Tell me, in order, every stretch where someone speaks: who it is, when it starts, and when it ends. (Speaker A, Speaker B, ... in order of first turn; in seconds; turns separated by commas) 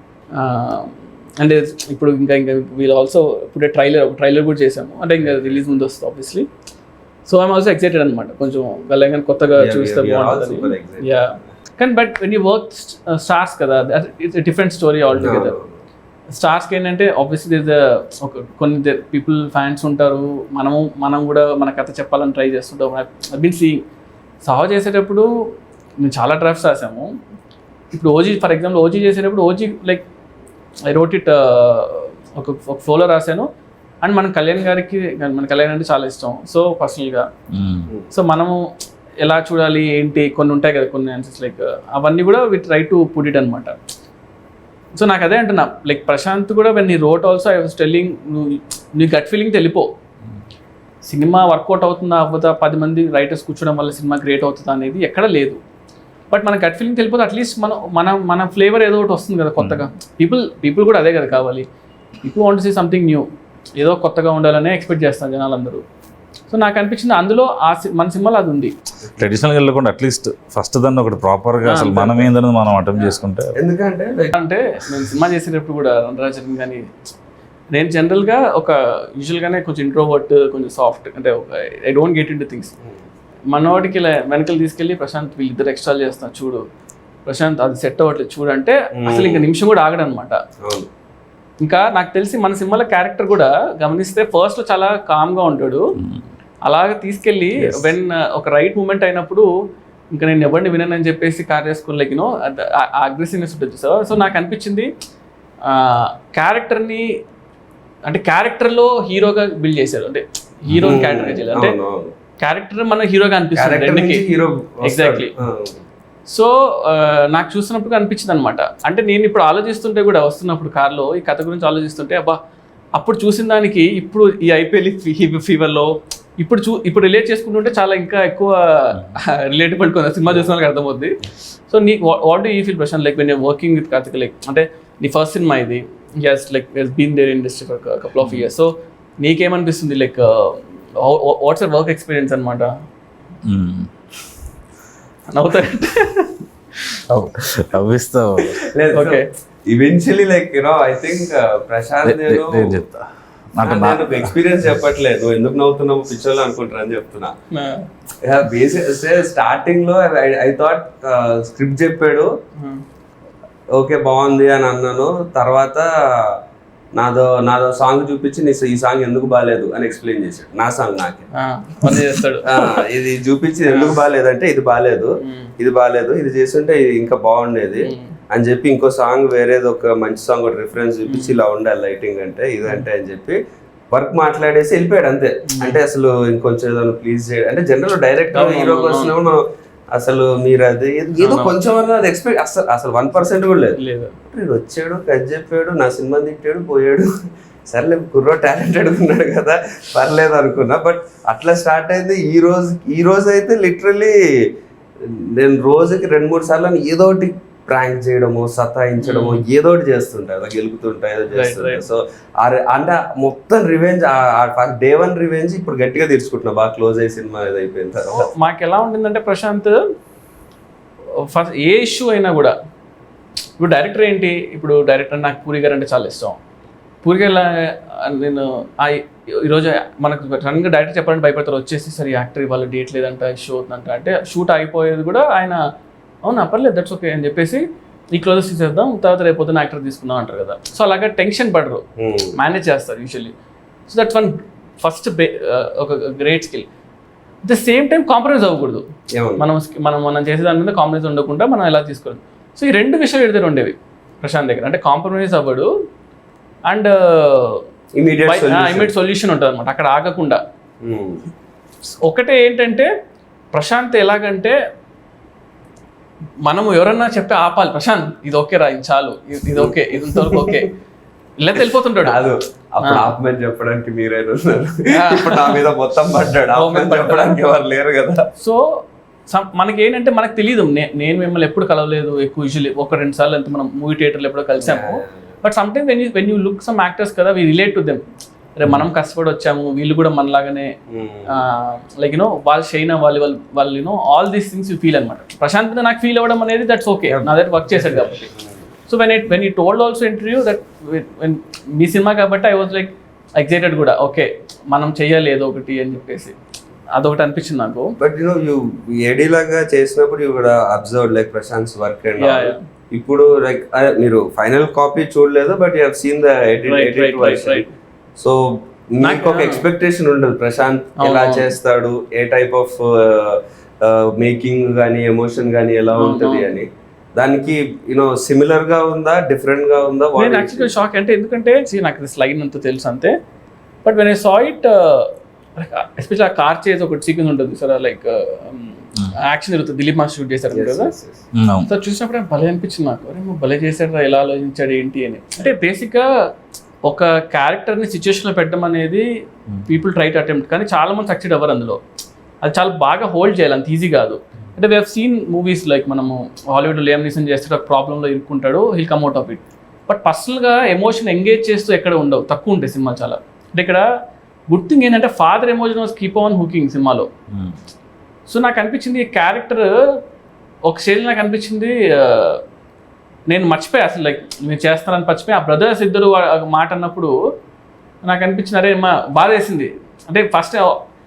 Speaker A: 0.3-6.5, Speaker B: 5.2-5.6, Speaker A: 7.2-15.5, Speaker B: 9.5-11.1, Speaker B: 15.2-15.7, Speaker A: 16.3-23.8, Speaker A: 24.4-25.3, Speaker A: 26.0-27.1, Speaker A: 27.9-30.0, Speaker A: 30.9-33.5, Speaker A: 34.0-37.2, Speaker C: 37.5-37.9, Speaker A: 38.1-38.6, Speaker A: 39.2-43.7, Speaker A: 44.9-49.9, Speaker A: 51.0-55.6, Speaker A: 56.3-61.6, Speaker A: 62.2-63.3, Speaker A: 63.8-65.8, Speaker A: 66.5-68.7, Speaker C: 69.2-73.5, Speaker A: 71.6-72.3, Speaker B: 73.5-74.3, Speaker A: 74.3-76.8, Speaker A: 77.7-82.7, Speaker A: 83.5-86.6, Speaker A: 87.2-90.4, Speaker B: 89.0-89.5, Speaker B: 90.6-90.9, Speaker A: 91.6-95.9, Speaker A: 96.7-99.5, Speaker A: 100.1-104.9, Speaker A: 105.7-107.1, Speaker A: 108.0-111.8, Speaker B: 110.8-112.1, Speaker A: 112.4-114.2, Speaker B: 113.5-115.8, Speaker A: 114.8-115.3, Speaker A: 116.3-122.4, Speaker A: 123.0-142.7, Speaker C: 143.4-143.9, Speaker A: 145.3-146.4, Speaker C: 147.1-148.5, Speaker B: 148.6-152.8, Speaker A: 148.9-149.3, Speaker C: 152.0-154.3, Speaker B: 153.6-157.3, Speaker A: 157.5-157.9, Speaker B: 158.2-162.3, Speaker B: 163.7-166.4, Speaker B: 166.9-171.3, Speaker A: 171.3-172.8, Speaker B: 172.4-183.4, Speaker A: 173.7-173.9, Speaker A: 175.2-175.5, Speaker A: 177.8-178.1, Speaker A: 181.1-181.4, Speaker B: 183.9-189.4, Speaker A: 185.5-185.8, Speaker A: 188.3-189.2, Speaker B: 189.9-193.8, Speaker A: 191.2-191.6, Speaker A: 193.8-194.2, Speaker B: 194.3-197.1, Speaker B: 197.7-204.1, Speaker B: 205.0-218.3, Speaker A: 209.0-209.4, Speaker A: 211.3-211.8, Speaker A: 218.1-219.8, Speaker A: 221.3-222.6, Speaker A: 223.6-226.4, Speaker A: 227.0-235.6, Speaker A: 236.2-237.6, Speaker A: 238.1-241.8, Speaker B: 242.0-242.3, Speaker A: 242.3-243.3, Speaker A: 243.9-246.7, Speaker A: 247.4-248.8, Speaker B: 249.1-249.4, Speaker A: 249.4-255.7, Speaker A: 256.7-257.6, Speaker B: 257.9-258.9, Speaker A: 258.2-260.4, Speaker B: 260.8-261.2, Speaker A: 262.0-262.9, Speaker A: 263.5-264.5, Speaker A: 266.4-270.7, Speaker B: 269.6-270.6, Speaker A: 271.4-272.2, Speaker B: 271.6-278.3, Speaker A: 272.8-273.1, Speaker A: 274.9-275.6, Speaker A: 276.5-277.4, Speaker A: 279.3-288.0, Speaker B: 284.6-285.0, Speaker A: 288.6-290.7, Speaker B: 290.9-291.4, Speaker A: 291.3-298.2, Speaker B: 297.1-298.6, Speaker A: 298.9-306.3, Speaker A: 306.9-307.9, Speaker B: 308.0-317.6, Speaker A: 312.2-312.6, Speaker A: 316.6-317.7, Speaker B: 318.2-330.7, Speaker A: 319.0-319.6, Speaker A: 321.0-321.5, Speaker A: 325.9-326.6, Speaker A: 330.2-333.1, Speaker A: 333.8-340.9, Speaker B: 340.5-341.2, Speaker C: 341.4-341.7, Speaker A: 341.6-346.0, Speaker A: 346.9-349.1, Speaker A: 349.6-351.8, Speaker A: 352.4-363.8, Speaker A: 364.5-367.1, Speaker A: 368.3-369.7, Speaker A: 370.6-372.4, Speaker A: 373.3-377.1, Speaker A: 378.0-380.7